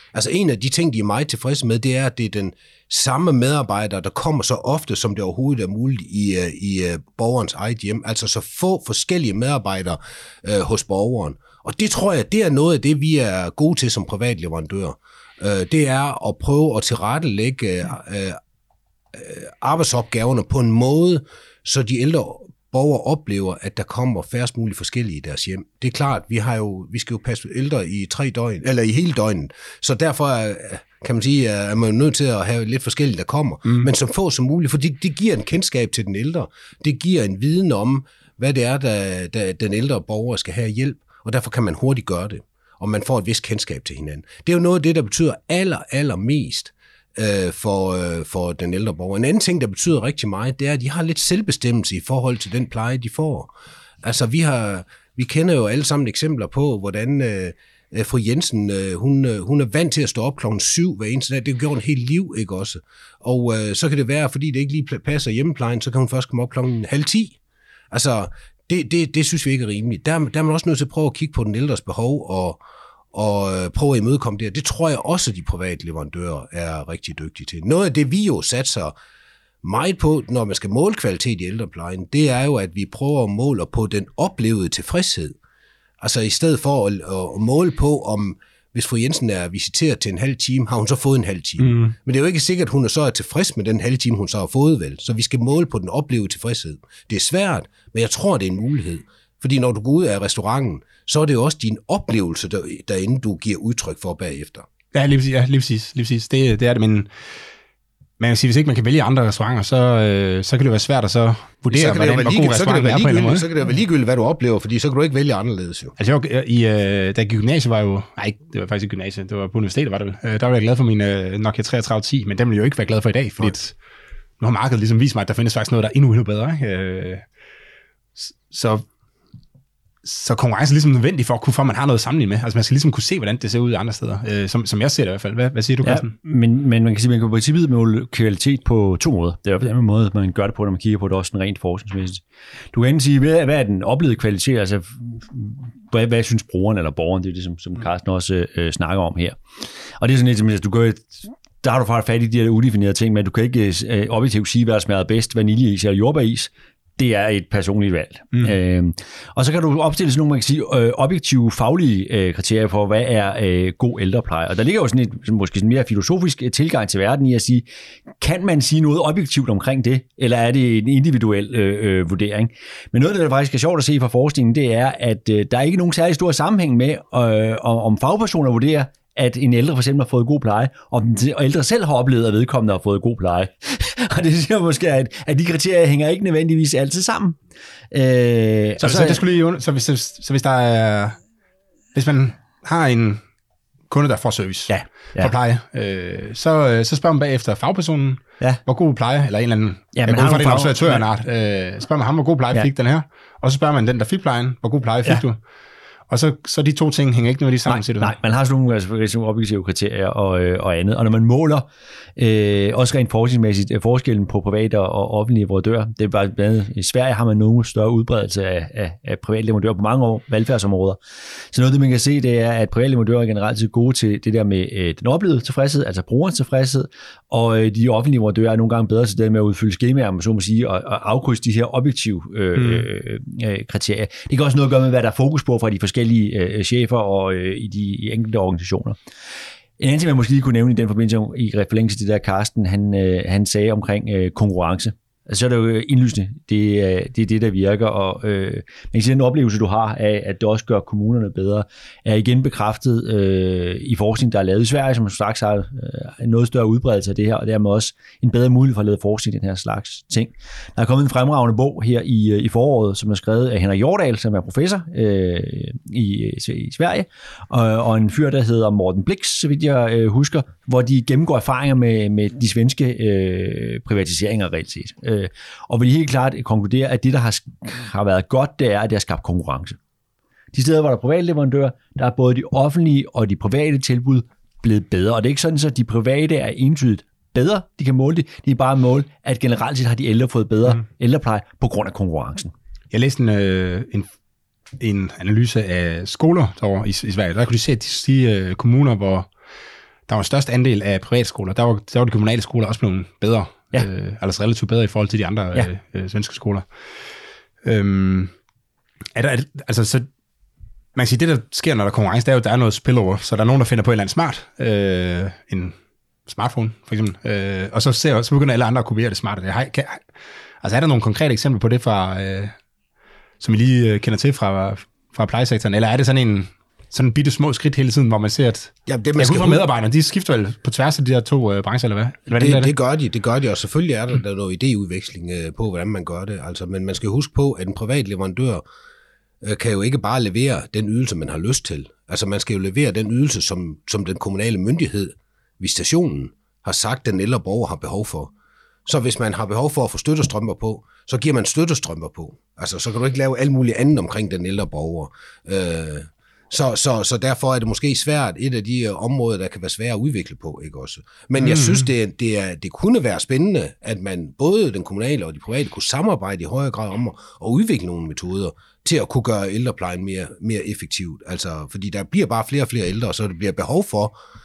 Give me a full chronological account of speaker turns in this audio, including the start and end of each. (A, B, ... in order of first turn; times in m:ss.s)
0:00.1-0:18.4 A
0:19.1-0:53.5 A
0:54.0-1:07.4 A
1:07.9-1:12.6 A
1:13.1-1:18.9 A
1:19.6-1:25.4 A
1:26.0-1:44.6 A
1:31.6-1:31.9 B
1:44.9-1:47.1 B
1:48.2-1:53.5 B
1:51.7-1:55.9 A
1:56.0-2:03.8 B
2:04.4-2:07.2 B
2:08.2-2:08.8 B
2:10.0-2:16.1 B
2:15.8-2:22.2 C
2:22.7-2:29.4 C
2:30.0-2:47.6 C
2:48.2-3:07.4 C
3:07.9-3:09.2 C
3:08.8-3:11.2 B
3:11.9-3:13.2 B
3:13.9-3:25.4 B
3:14.7-3:15.3 C
3:19.9-3:21.0 C
3:26.1-3:28.2 B
3:27.6-3:59.0 C
3:52.6-3:52.8 B
3:59.8-4:39.8 C
4:40.5-4:52.5 C
4:52.9-4:54.1 B
4:54.8-4:59.3 B
5:00.1-5:06.6 B
5:07.6-5:08.3 B
5:09.1-5:10.1 B
5:10.9-5:15.8 B
5:16.3-5:20.0 B
5:20.6-5:22.5 B
5:23.4-5:32.7 B
5:28.9-5:29.7 A
5:32.3-5:38.6 A
5:39.4-5:48.3 A
5:48.9-6:14.1 A
6:01.4-6:01.9 B